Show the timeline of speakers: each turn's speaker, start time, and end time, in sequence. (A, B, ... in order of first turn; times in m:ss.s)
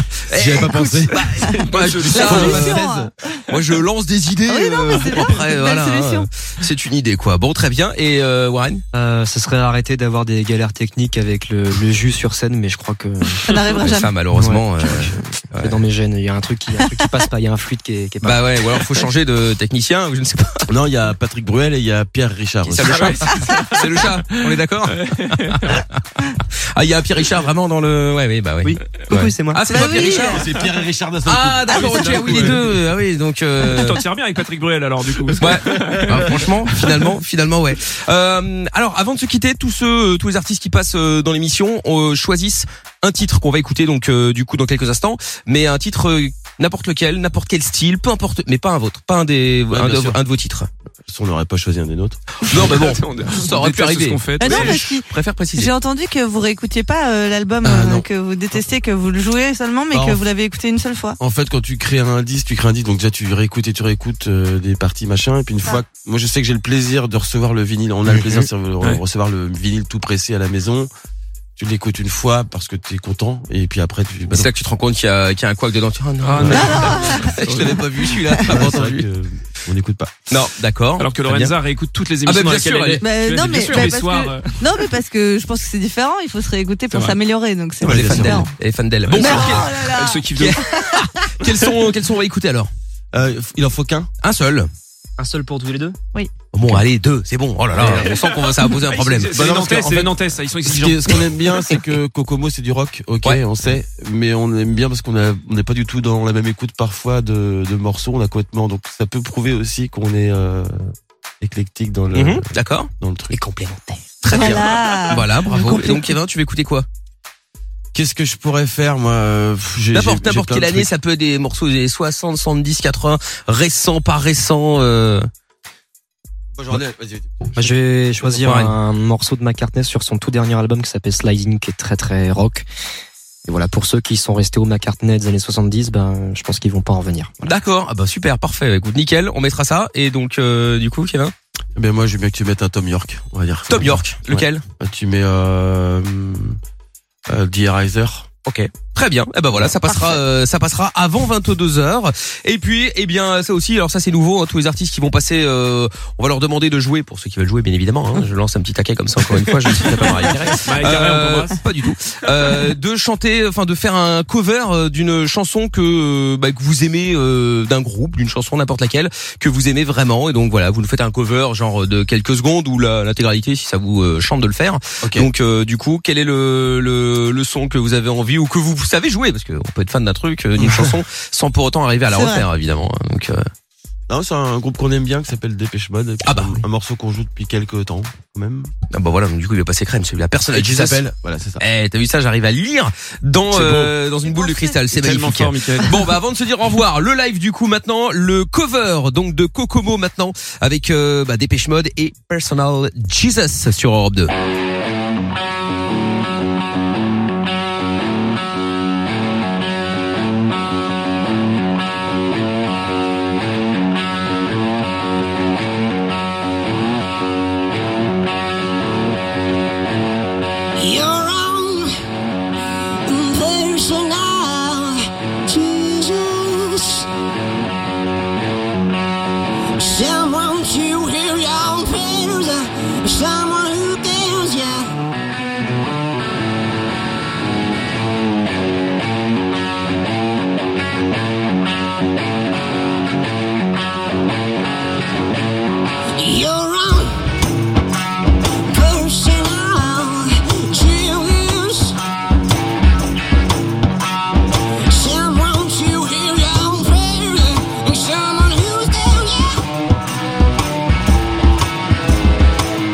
0:00.3-0:08.8 A
0:00.3-0:01.4 B
0:00.7-0:01.6 C
0:01.4-0:02.8 D
0:02.1-0:03.1 C
0:02.2-0:02.7 B
0:04.4-0:06.3 C
0:08.9-0:13.6 E
0:13.5-0:14.1 C
0:13.7-0:15.8 A
0:14.3-0:18.5 E
0:18.2-0:20.7 A
0:20.7-0:23.3 B
0:22.6-0:30.4 A
0:22.8-0:25.8 D
0:28.6-0:29.7 E
0:29.6-0:30.4 C
0:30.0-0:32.6 B
0:31.2-0:34.0 A
0:32.0-0:32.7 D
0:33.6-0:36.9 D
0:35.4-0:50.7 A
0:49.7-0:50.2 B
0:51.0-0:52.2 B
0:52.5-0:55.7 A
0:52.5-0:54.8 D
0:54.4-1:01.2 C
0:57.6-0:58.0 B
0:59.9-1:00.2 B
1:01.2-1:10.9 B
1:08.1-1:08.4 A
1:11.6-1:14.5 B
1:14.3-1:19.0 A
1:16.2-1:17.8 D
1:16.4-1:16.6 B
1:16.4-1:18.6 C
1:18.5-1:20.2 B
1:20.3-1:21.6 A
1:21.0-1:24.6 D
1:22.2-1:23.8 A
1:23.0-1:28.5 C
1:26.9-1:27.2 D
1:27.8-1:32.7 A
1:27.8-1:28.5 B
1:29.1-1:30.6 D
1:29.1-1:31.2 C
1:33.1-1:34.1 B
1:34.2-1:34.7 A
1:35.2-1:36.0 E
1:36.1-1:36.8 C
1:36.5-1:39.5 A
1:37.8-1:38.1 B
1:38.0-1:41.3 D
1:39.3-1:52.4 B
1:52.1-1:52.9 A
1:53.0-1:53.4 B
1:53.3-1:54.1 E
1:54.2-1:56.8 A
1:54.2-1:56.2 C
1:57.9-2:00.9 B
1:59.9-2:05.3 A
2:06.5-2:07.6 B
2:07.6-2:12.6 E
2:08.4-2:08.7 A
2:13.5-2:17.5 E
2:17.4-2:21.3 A
2:21.8-2:26.6 B
2:23.7-2:24.6 A
2:27.3-2:28.3 B
2:28.4-3:03.4 A
2:29.8-2:30.2 C
2:40.2-2:41.6 D
2:55.0-2:55.3 B
3:00.6-3:00.9 B
3:02.1-3:02.5 C
3:04.1-3:08.7 B
3:06.2-3:06.6 A
3:08.9-3:11.0 A
3:10.5-3:11.6 B
3:11.6-3:24.3 A
3:13.5-3:16.0 D
3:14.5-3:14.7 C
3:40.7-3:41.9 F
3:43.0-3:47.1 F
3:49.8-3:54.9 F
4:06.2-4:07.1 F
4:08.6-4:12.0 F
4:14.8-4:19.6 F